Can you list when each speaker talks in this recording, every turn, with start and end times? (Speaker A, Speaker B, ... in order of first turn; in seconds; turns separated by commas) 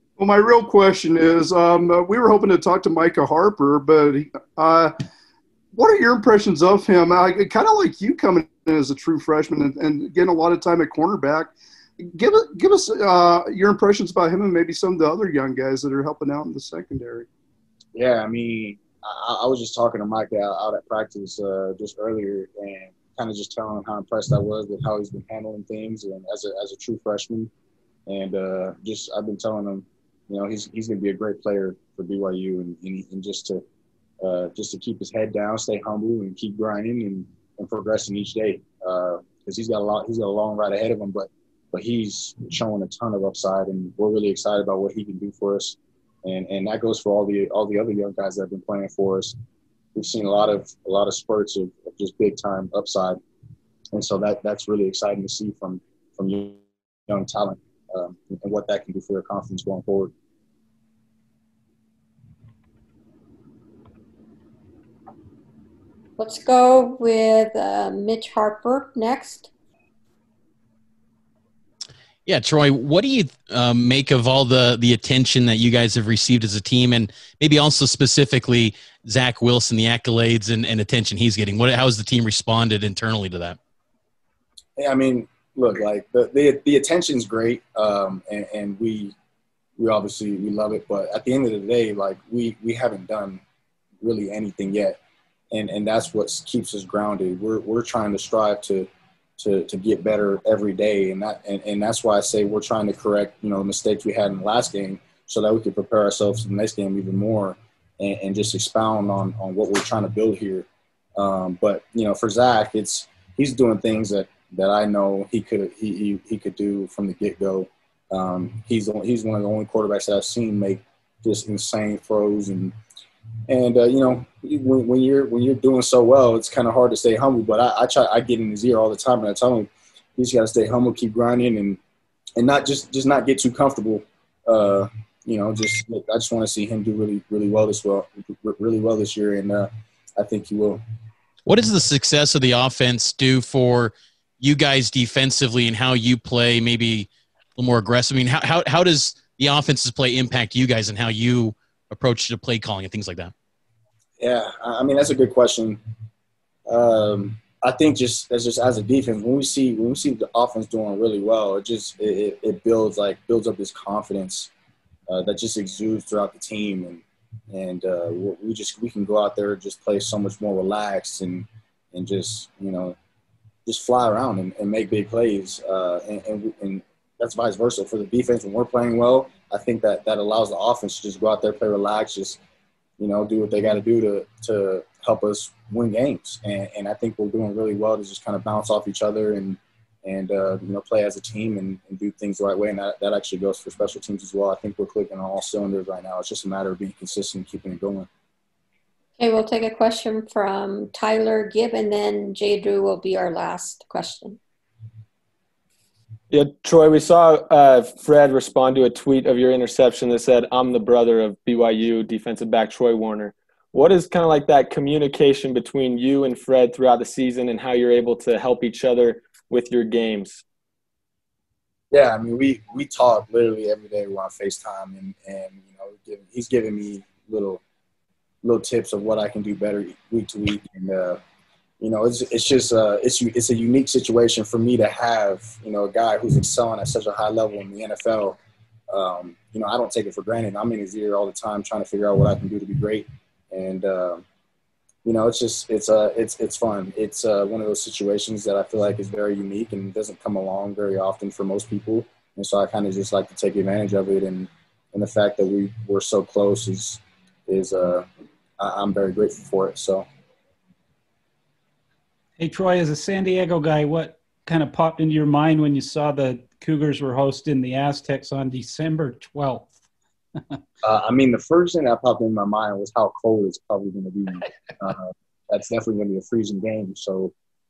Speaker A: 0.2-4.9, Speaker A: 5.7-17.3, Speaker B: 17.9-27.5, Speaker B: 28.1-33.6, Speaker B: 34.2-49.4, Speaker B: 50.0-53.2, Speaker B: 53.9-60.1, Speaker C: 66.2-69.5, Speaker D: 72.3-83.6, Speaker B: 84.8-89.2, Speaker B: 89.8-93.4, Speaker B: 94.0-95.0, Speaker B: 95.5-122.7, Speaker B: 123.5-131.8, Speaker B: 132.4-140.8, Speaker D: 141.5-153.3, Speaker B: 154.2-155.8, Speaker B: 156.7-164.5, Speaker B: 165.1-173.0, Speaker B: 173.7-182.4, Speaker B: 183.0-198.1, Speaker C: 199.2-204.4, Speaker E: 206.3-220.4, Speaker B: 221.9-227.6, Speaker B: 228.4-231.2, Speaker B: 231.8-238.4, Speaker B: 238.9-244.2, Speaker B: 245.1-258.1, Speaker B: 258.6-260.1, Speaker F: 262.4-269.7, Speaker B: 270.8-277.3